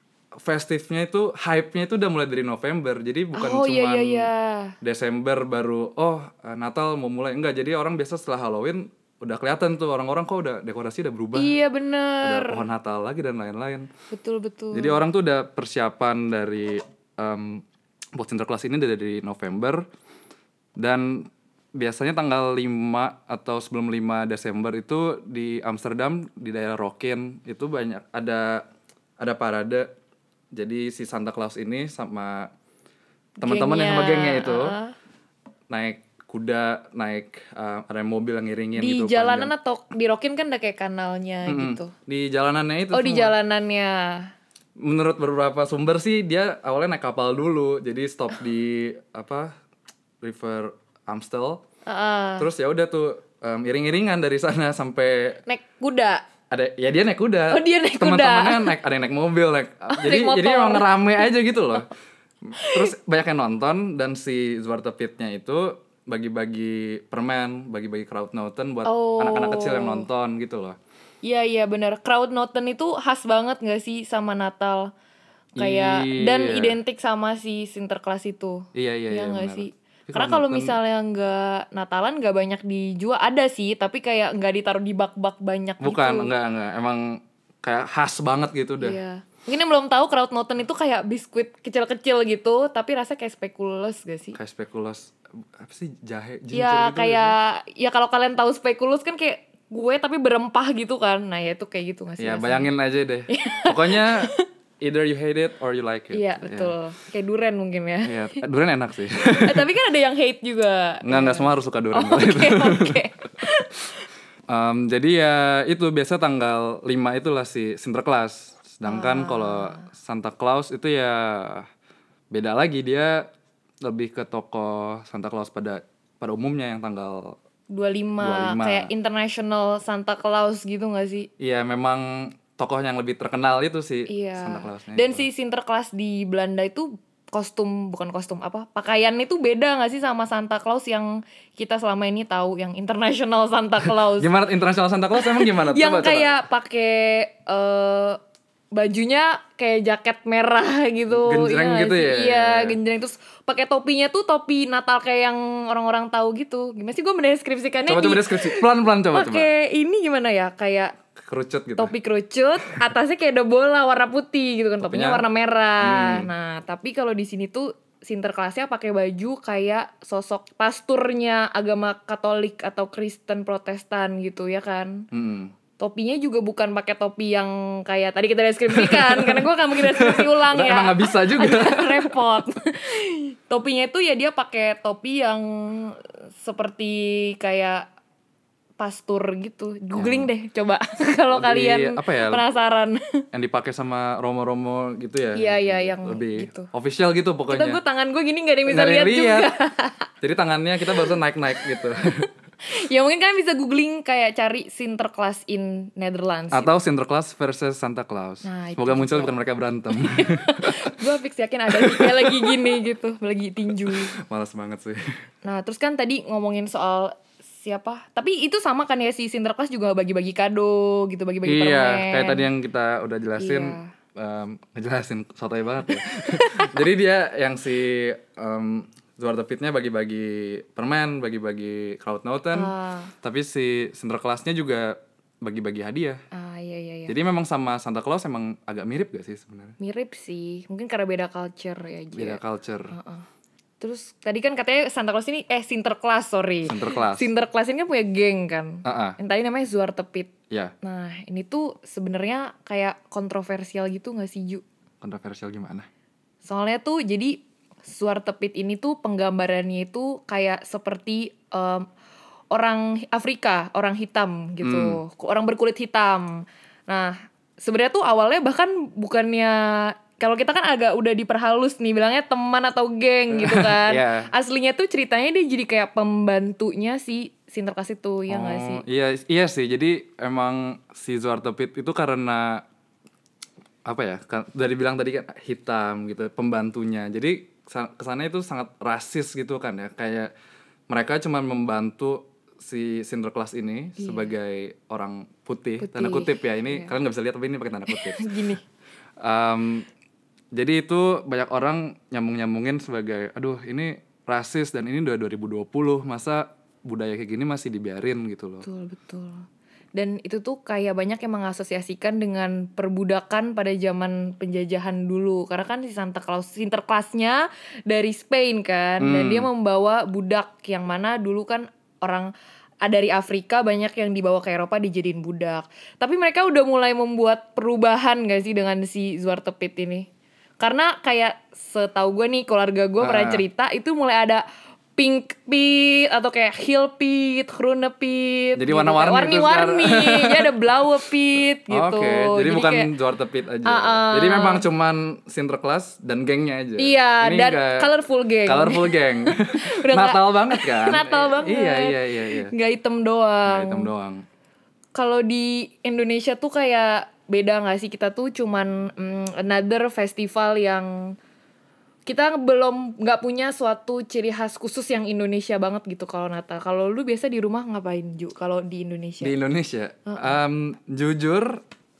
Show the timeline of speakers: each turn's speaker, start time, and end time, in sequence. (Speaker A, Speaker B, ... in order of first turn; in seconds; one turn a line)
Speaker A: 0.4-4.3
Speaker B: 3.3-4.8
Speaker A: 4.8-11.6
Speaker B: 11.3-12.6
Speaker A: 12.2-13.9
Speaker B: 14.1-15.0
Speaker A: 14.7-17.6
Speaker A: 18.1-19.9
Speaker A: 20.8-28.6
Speaker A: 29.2-29.9
Speaker A: 30.5-32.5
Speaker B: 33.4-35.0
Speaker A: 33.4-34.8
Speaker A: 35.7-39.5
Speaker B: 38.8-41.9
Speaker A: 41.5-43.4
Speaker B: 42.9-44.3
Speaker A: 44.8-49.5
Speaker A: 50.2-51.6
Speaker B: 51.9-52.5
Speaker A: 52.4-55.4
Speaker B: 55.5-56.2
Speaker A: 56.5-61.9
Speaker B: 57.5-58.8
Speaker B: 59.9-60.9
Speaker A: 62.5-70.8
Speaker B: 62.6-62.9
Speaker B: 68.8-70.1
Speaker B: 71.2-74.9
Speaker B: 75.6-86.3
Speaker A: 75.6-76.8
Speaker A: 78.7-80.8
Speaker A: 85.8-89.0
Speaker B: 88.8-94.4
Speaker A: 94.3-97.3
Speaker B: 96.5-102.7
Speaker A: 102.2-106.8
Speaker B: 103.3-104.5
Speaker B: 106.1-108.4
Speaker A: 108.0-109.7
Speaker B: 109.3-114.0
Speaker A: 111.0-113.0
Speaker A: 114.5-121.7
Speaker B: 118.8-119.9
Speaker A: 122.3-123.3
Speaker A: 123.8-127.4
Speaker B: 127.7-131.3
Speaker A: 128.2-128.9
Speaker A: 131.4-135.2
Speaker B: 134.1-144.3
Speaker A: 144.2-146.3
Speaker B: 145.2-148.2
Speaker B: 148.7-160.9
Speaker A: 151.1-152.8
Speaker A: 157.9-159.5
Speaker A: 161.2-161.9
Speaker B: 161.8-175.1
Speaker A: 164.8-165.2
Speaker A: 165.8-166.3
Speaker A: 175.1-175.5
Speaker B: 175.8-187.9
Speaker A: 178.7-182.2
Speaker B: 188.8-193.2
Speaker A: 190.0-190.3
Speaker A: 191.3-192.4
Speaker A: 193.3-197.8
Speaker B: 195.3-196.7
Speaker B: 197.5-200.1
Speaker A: 198.7-199.5
Speaker A: 200.2-202.3
Speaker B: 202.7-206.7
Speaker A: 206.5-210.9
Speaker B: 208.4-209.3
Speaker B: 209.9-214.1
Speaker A: 211.7-212.8
Speaker A: 213.7-215.0
Speaker B: 215.4-222.5
Speaker A: 221.4-236.2
Speaker B: 223.4-223.9
Speaker B: 226.1-226.7
Speaker B: 232.5-233.1
Speaker B: 236.3-237.2
Speaker A: 237.1-239.8
Speaker B: 239.8-243.2
Speaker A: 242.2-242.9
Speaker B: 243.8-254.6
Speaker A: 246.7-247.3
Speaker A: 248.8-249.2
Speaker A: 255.0-255.9
Speaker B: 256.4-261.9
Speaker B: 262.5-278.8
Speaker A: 264.6-265.0
Speaker A: 273.3-274.3
Speaker A: 278.3-282.6
Speaker A: 283.9-290.3
Speaker A: 290.9-298.3
Speaker B: 294.0-294.3
Speaker B: 295.8-296.9
Speaker B: 297.9-298.6
Speaker A: 299.2-299.9
Speaker A: 300.5-308.7
Speaker B: 308.6-322.3
Speaker A: 319.0-319.5
Speaker B: 322.8-330.1
Speaker B: 330.6-334.4
Speaker A: 333.0-333.4
Speaker B: 335.0-342.9
Speaker A: 338.6-340.6
Speaker A: 341.7-347.9
Speaker B: 343.6-344.6
Speaker B: 346.8-353.9
Speaker A: 348.4-352.5
Speaker A: 353.4-354.2
Speaker B: 354.9-361.2
Speaker B: 362.1-369.4
Speaker A: 369.2-371.6
Speaker B: 370.1-370.4